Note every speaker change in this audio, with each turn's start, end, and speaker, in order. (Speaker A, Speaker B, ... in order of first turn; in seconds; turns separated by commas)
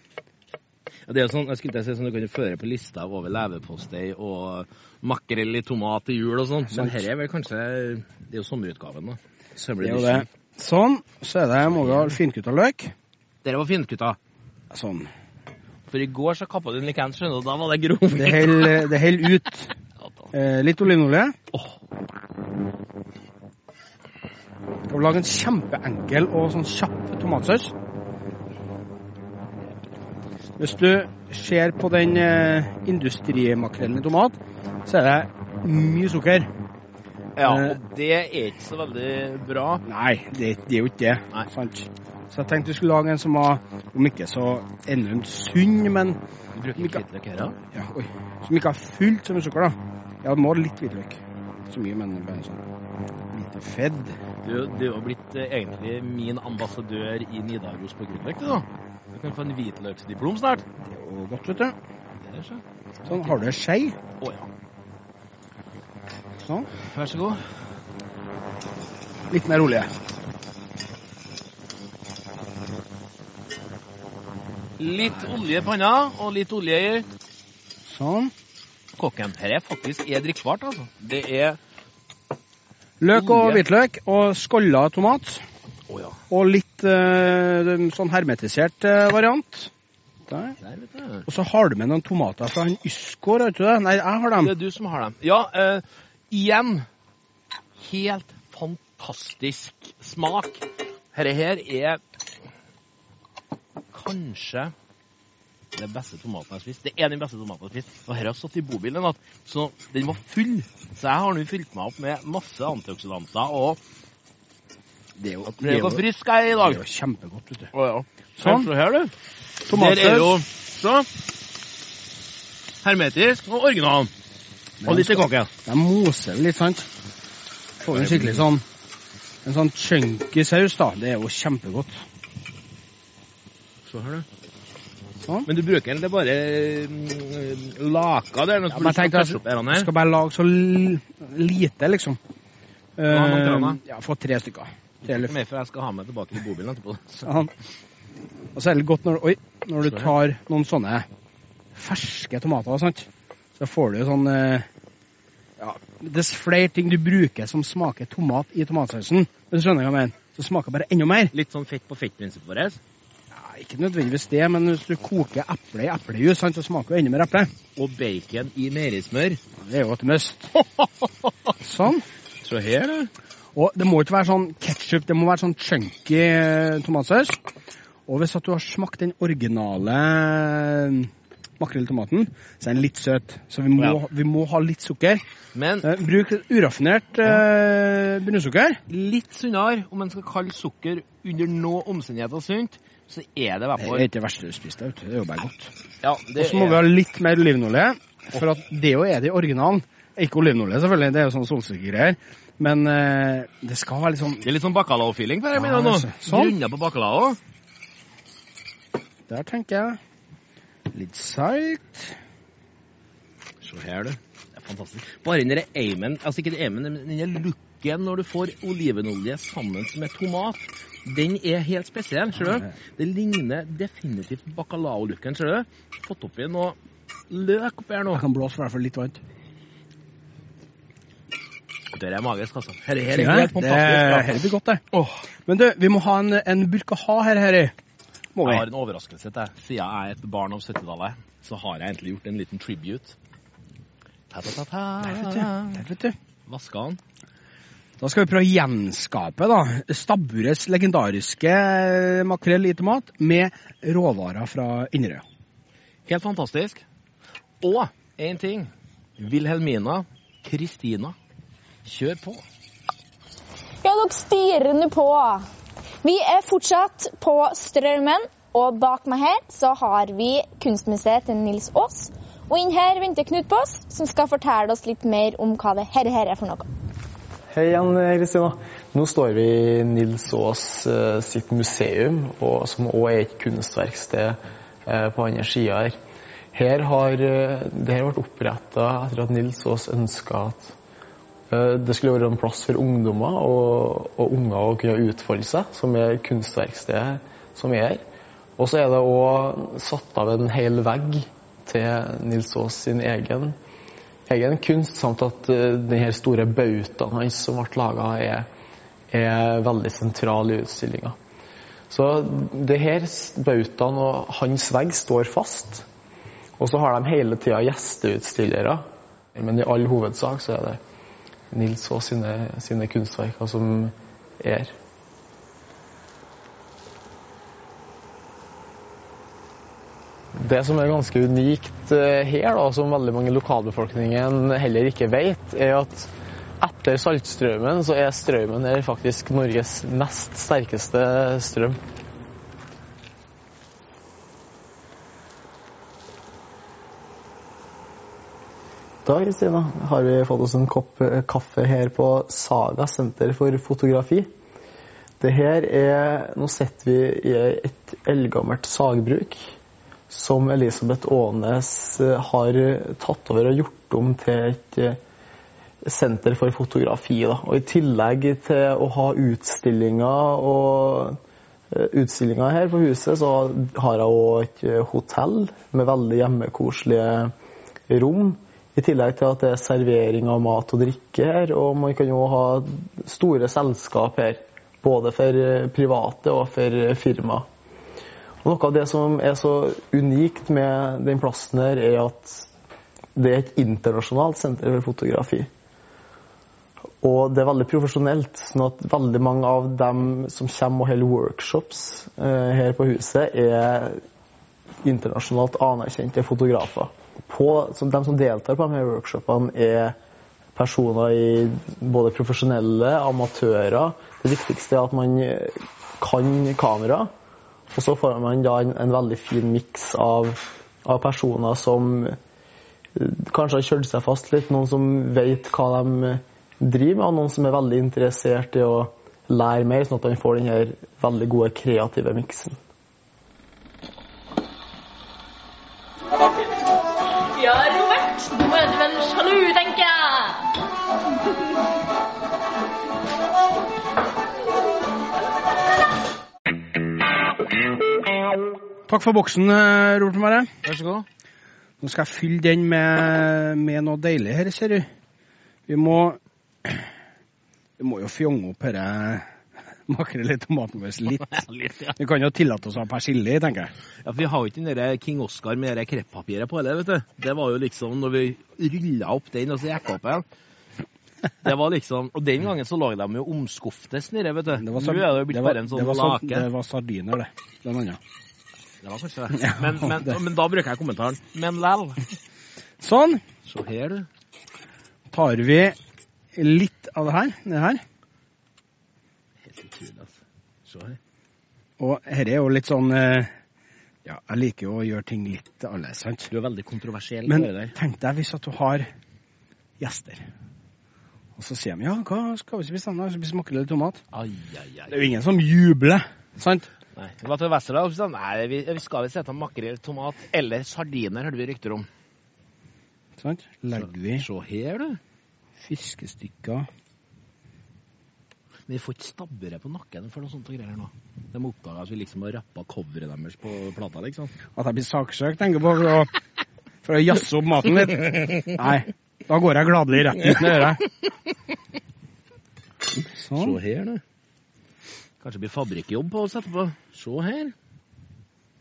Speaker A: 1.1-10.3, Speaker B: 6.7-7.0, Speaker B: 9.8-12.9, Speaker A: 11.6-12.2, Speaker A: 13.4-14.2, Speaker B: 14.7-15.1, Speaker A: 15.9-18.9, Speaker B: 18.1-19.7, Speaker B: 20.3-21.3, Speaker B: 24.9-27.7, Speaker B: 30.6-36.5, Speaker A: 37.4-39.8, Speaker B: 37.4-37.8, Speaker B: 39.8-46.2, Speaker A: 46.5-47.6, Speaker B: 46.8-47.0, Speaker B: 47.7-52.6, Speaker B: 53.3-54.2, Speaker A: 54.4-60.6, Speaker B: 60.8-61.8, Speaker A: 62.2-63.5, Speaker B: 63.0-64.0, Speaker A: 64.2-64.5, Speaker B: 66.4-66.7, Speaker A: 66.8-67.4, Speaker B: 69.3-69.9, Speaker A: 74.8-77.1, Speaker B: 77.8-78.3, Speaker A: 79.0-81.6, Speaker B: 83.0-85.4, Speaker A: 83.1-83.6, Speaker A: 85.9-86.2, Speaker B: 86.3-89.7, Speaker B: 90.3-90.5, Speaker A: 90.6-91.2, Speaker B: 91.2-94.5, Speaker A: 94.4-96.8, Speaker A: 97.8-102.0, Speaker A: 103.9-104.7, Speaker A: 105.7-113.8, Speaker B: 115.2-117.7, Speaker A: 115.4-116.8, Speaker A: 117.7-119.1, Speaker B: 118.4-118.7, Speaker B: 119.7-120.4, Speaker A: 119.7-121.1, Speaker A: 122.8-124.1, Speaker B: 124.8-126.9, Speaker A: 124.8-125.5, Speaker B: 127.8-128.6, Speaker A: 127.9-128.4, Speaker B: 129.4-131.9, Speaker A: 133.8-134.2, Speaker A: 135.4-139.9, Speaker B: 138.7-142.2, Speaker B: 143.0-145.3, Speaker A: 143.1-143.8, Speaker A: 145.0-147.3, Speaker B: 147.2-147.5, Speaker B: 148.5-151.1, Speaker A: 149.8-150.1, Speaker B: 151.7-154.7, Speaker B: 155.6-161.3, Speaker A: 161.3-162.8, Speaker B: 163.3-167.5, Speaker A: 167.8-169.4, Speaker B: 169.6-170.6, Speaker B: 171.6-172.0, Speaker A: 172.4-173.1, Speaker B: 173.5-177.4, Speaker B: 178.1-185.2, Speaker A: 185.5-185.9, Speaker B: 185.8-188.8, Speaker A: 188.9-194.1, Speaker B: 193.8-195.7, Speaker A: 196.0-196.9, Speaker B: 196.3-204.4, Speaker A: 204.4-207.4, Speaker B: 205.5-206.6, Speaker B: 209.3-210.0, Speaker B: 210.9-212.2, Speaker A: 213.6-226.8, Speaker B: 222.4-222.7, Speaker A: 227.3-228.2, Speaker B: 228.1-229.2, Speaker A: 231.9-234.4, Speaker B: 233.1-234.8, Speaker A: 234.9-235.2, Speaker B: 235.4-237.7, Speaker B: 238.3-238.7, Speaker A: 238.4-243.2, Speaker A: 244.3-245.8, Speaker B: 245.0-246.1, Speaker A: 246.5-247.0, Speaker B: 248.0-255.2, Speaker A: 256.1-256.8, Speaker A: 257.6-261.1, Speaker A: 261.8-262.4, Speaker C: 263.8-265.4, Speaker C: 266.0-276.6, Speaker D: 277.5-285.9, Speaker D: 286.5-290.7, Speaker D: 291.5-298.0, Speaker D: 298.6-303.6, Speaker D: 304.3-308.4, Speaker D: 309.1-311.1, Speaker D: 311.9-315.9, Speaker D: 316.6-318.8, Speaker D: 319.3-320.8, Speaker D: 321.5-324.7, Speaker D: 330.4-336.1, Speaker D: 336.6-341.8, Speaker D: 349.0-354.3, Speaker D: 355.2-359.4, Speaker D: 360.1-365.0, Speaker D: 365.9-371.2, Speaker D: 371.7-377.3, Speaker D: 377.9-387.4, Speaker D: 388.4-392.5, Speaker D: 393.1-395.5, Speaker D: 397.0-404.0, Speaker D: 404.8-409.9, Speaker D: 410.6-417.1, Speaker D: 417.7-422.1, Speaker D: 422.9-432.6, Speaker E: 437.4-440.3, Speaker C: 437.7-438.1, Speaker C: 439.0-439.5, Speaker B: 448.9-450.5, Speaker A: 450.6-451.1, Speaker B: 451.8-454.9, Speaker B: 455.7-456.9, Speaker B: 457.8-459.3, Speaker B: 459.9-463.7, Speaker A: 461.2-461.9, Speaker A: 464.0-470.2, Speaker A: 471.4-476.5, Speaker B: 474.5-478.0, Speaker A: 478.8-482.0, Speaker B: 479.4-480.2, Speaker B: 482.8-483.2, Speaker A: 483.4-484.1, Speaker B: 485.1-485.8, Speaker B: 486.3-487.8, Speaker A: 489.4-491.0, Speaker B: 491.8-493.3, Speaker B: 494.0-496.3, Speaker A: 496.3-497.7, Speaker B: 497.2-498.9, Speaker B: 499.8-500.2, Speaker B: 501.4-504.0, Speaker A: 504.1-505.0, Speaker B: 504.9-506.7, Speaker A: 506.9-511.9, Speaker B: 513.2-514.2, Speaker A: 513.7-515.0, Speaker B: 515.6-516.7, Speaker A: 518.7-524.3, Speaker B: 524.5-526.1, Speaker B: 526.8-530.8, Speaker B: 533.1-533.6, Speaker A: 533.3-534.0, Speaker A: 535.2-537.5